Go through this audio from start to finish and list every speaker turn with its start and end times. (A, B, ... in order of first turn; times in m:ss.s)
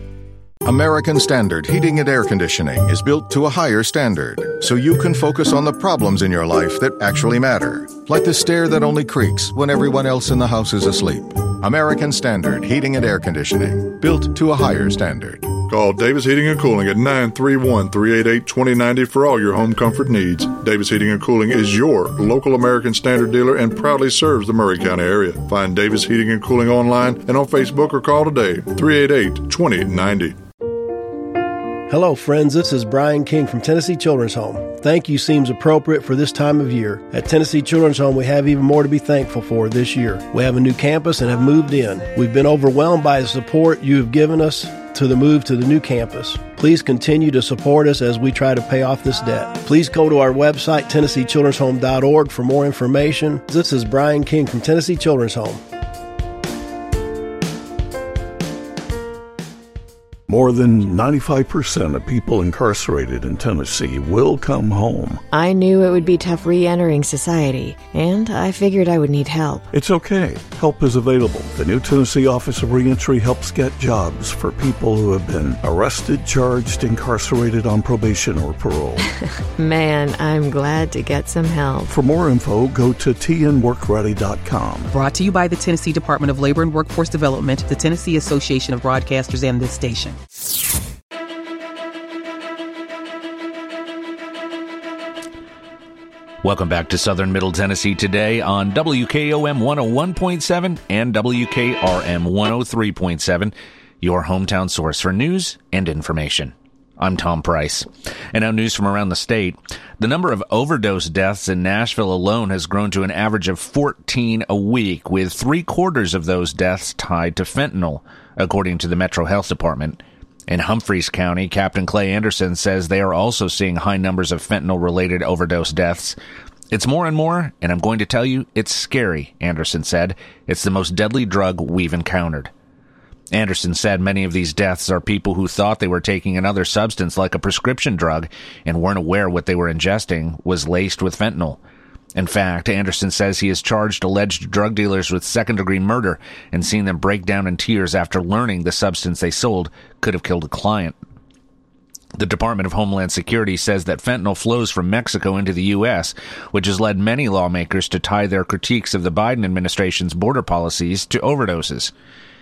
0:00.6-0:15.6 A
0:15.6-0:30.4 B
0:31.9-0:55.6 C
1:00.3-1:05.2 D
1:05.3-1:09.7 E
1:09.7-1:19.0 D
1:19.6-1:21.9 E
1:21.9-1:24.9 D
1:24.9-1:30.2 F
1:36.4-2:06.2 G
2:06.7-2:12.5 G
2:13.3-2:21.6 G
2:22.2-2:31.0 G
2:32.2-2:41.9 G